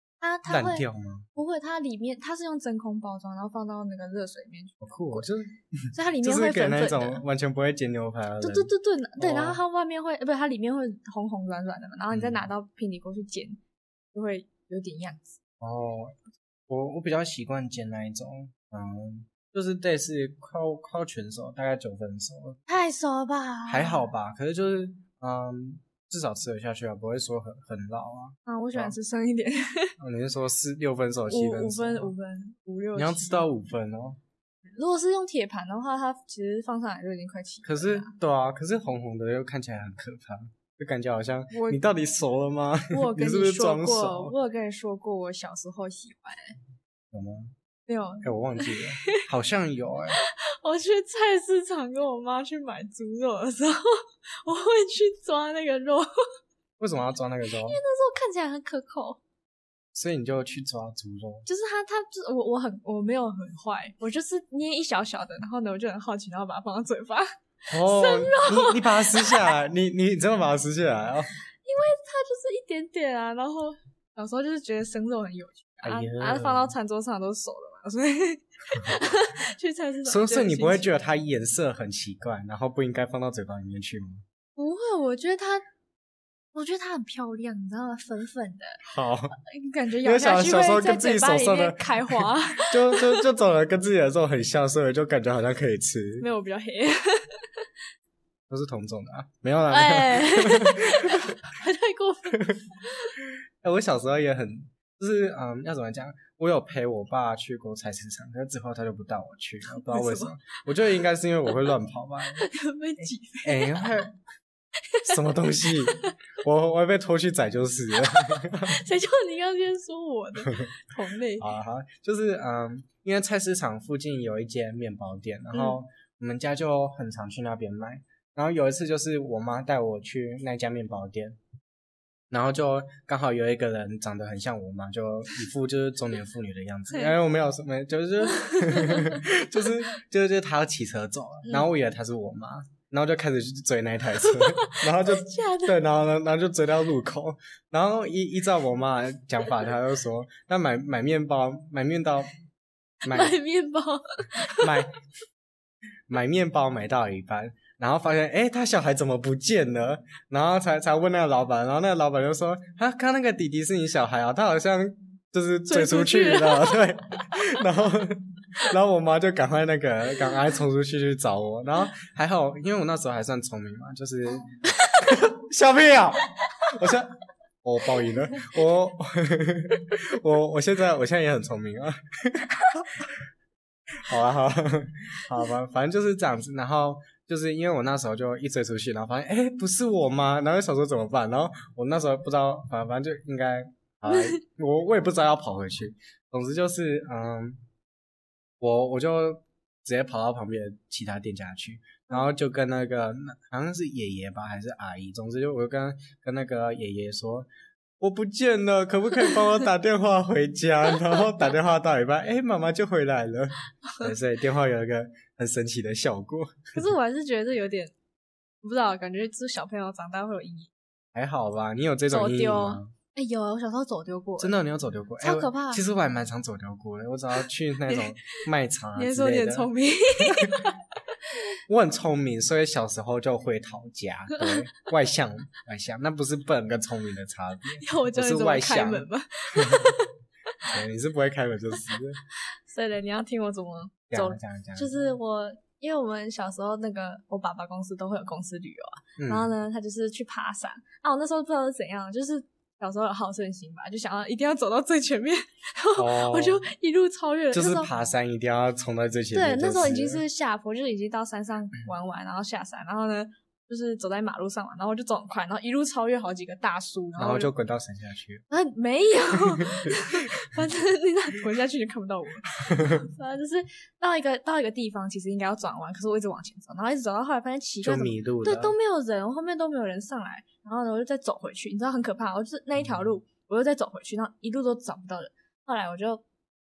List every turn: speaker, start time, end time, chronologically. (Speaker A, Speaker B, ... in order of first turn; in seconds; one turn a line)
Speaker A: 0.2-0.8
Speaker B: 0.5-1.3
Speaker A: 1.4-5.3
Speaker B: 4.8-9.6
Speaker A: 5.9-7.2
Speaker A: 8.4-13.6
Speaker B: 12.1-12.4
Speaker A: 14.1-15.4
Speaker B: 15.6-16.2
Speaker B: 16.7-22.6
Speaker A: 22.7-24.0
Speaker B: 23.7-28.9
Speaker A: 28.4-29.9
Speaker B: 30.0-32.1
Speaker A: 31.3-33.4
Speaker B: 32.9-34.2
Speaker A: 34.7-38.1
Speaker B: 37.6-44.3
Speaker A: 41.5-41.8
Speaker A: 42.9-46.6
Speaker B: 47.1-47.5
Speaker A: 47.9-49.2
Speaker B: 48.2-50.2
Speaker A: 50.2-56.1
Speaker B: 56.8-57.8
Speaker A: 57.5-59.2
Speaker B: 59.9-61.5
Speaker A: 61.5-67.2
Speaker B: 67.7-71.3
Speaker A: 67.8-69.5
Speaker A: 71.6-80.9
Speaker B: 75.8-76.7
Speaker B: 80.0-84.2
Speaker A: 84.5-85.6
Speaker A: 86.5-88.8
Speaker B: 88.8-89.4
Speaker A: 89.4-93.2
Speaker B: 90.0-96.3
Speaker A: 96.2-97.7
Speaker B: 98.5-101.5
Speaker A: 99.7-103.2
Speaker B: 102.3-102.7
Speaker B: 103.6-112.5
Speaker A: 109.7-110.3
Speaker A: 112.4-114.0
Speaker B: 113.4-114.1
Speaker A: 114.8-115.2
Speaker B: 115.0-118.8
Speaker A: 115.8-116.1
Speaker A: 118.1-121.5
Speaker B: 121.4-131.4
Speaker B: 132.3-152.3
Speaker A: 138.3-139.2
Speaker A: 144.2-145.8
Speaker B: 153.0-153.4
Speaker A: 153.1-154.8
Speaker B: 154.6-154.9
Speaker B: 156.1-183.1
Speaker A: 165.7-166.9
Speaker A: 174.8-175.2
Speaker B: 184.0-197.6
Speaker A: 194.1-194.3
Speaker B: 198.6-207.5
Speaker B: 208.0-216.8
Speaker A: 216.7-217.9
Speaker A: 218.6-220.7
Speaker B: 221.1-222.9
Speaker A: 222.1-224.6
Speaker B: 224.4-230.7
Speaker A: 225.2-225.8
Speaker A: 228.9-231.4
Speaker B: 231.7-239.9
Speaker A: 237.8-240.7
Speaker B: 240.6-242.2
Speaker A: 242.3-257.9
Speaker B: 244.1-245.1
Speaker B: 249.2-249.5
Speaker B: 255.9-256.6
Speaker B: 257.5-260.2
Speaker A: 259.3-267.5
Speaker B: 267.2-268.4
Speaker A: 268.5-286.2
Speaker B: 269.5-270.0
Speaker B: 272.7-273.0
Speaker B: 277.8-278.7